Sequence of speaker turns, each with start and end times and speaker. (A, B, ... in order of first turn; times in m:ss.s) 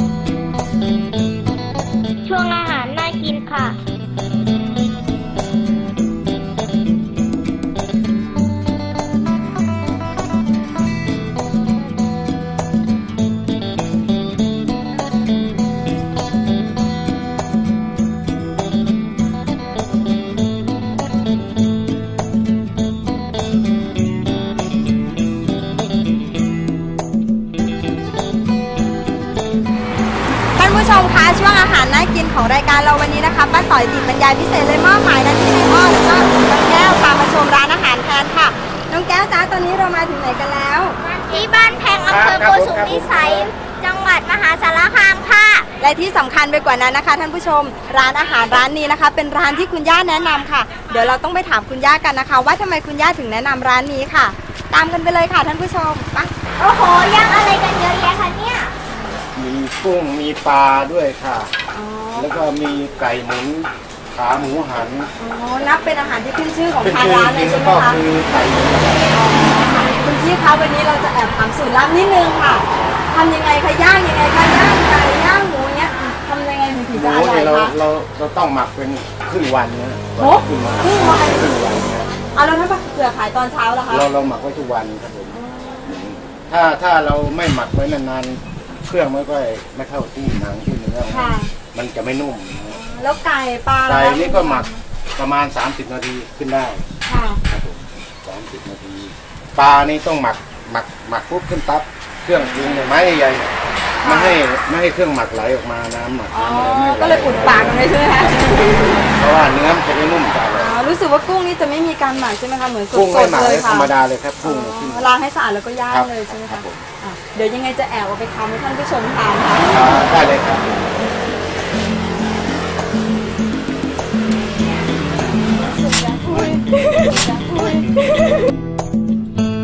0:02.3-0:03.8 A
0:30.6-0:41.0 B
0:41.1-0:45.7 A
0:42.1-0:43.5 C
0:45.8-0:56.3 B
0:56.6-0:58.7 A
0:58.9-0:59.2 B
0:59.3-1:01.5 C
1:01.7-1:02.3 B
1:02.2-1:05.1 C
1:05.2-1:08.0 B
1:06.8-1:09.2 C
1:09.1-1:17.7 B
1:16.9-1:22.1 C
1:20.2-1:21.6 B
1:22.3-1:24.0 B
1:23.9-1:32.8 C
1:25.3-1:25.9 B
1:31.1-1:31.5 B
1:32.7-1:34.8 B
1:33.8-1:36.9 C
1:37.1-1:37.4 B
1:37.5-1:48.4 C
1:42.4-1:42.8 B
1:44.0-1:44.4 B
1:46.3-1:49.1 B
1:49.1-1:50.8 C
1:50.6-1:53.9 B
1:52.9-1:55.1 C
1:54.4-2:00.0 B
1:55.9-1:56.9 C
1:59.6-2:00.9 C
2:04.9-2:08.4 B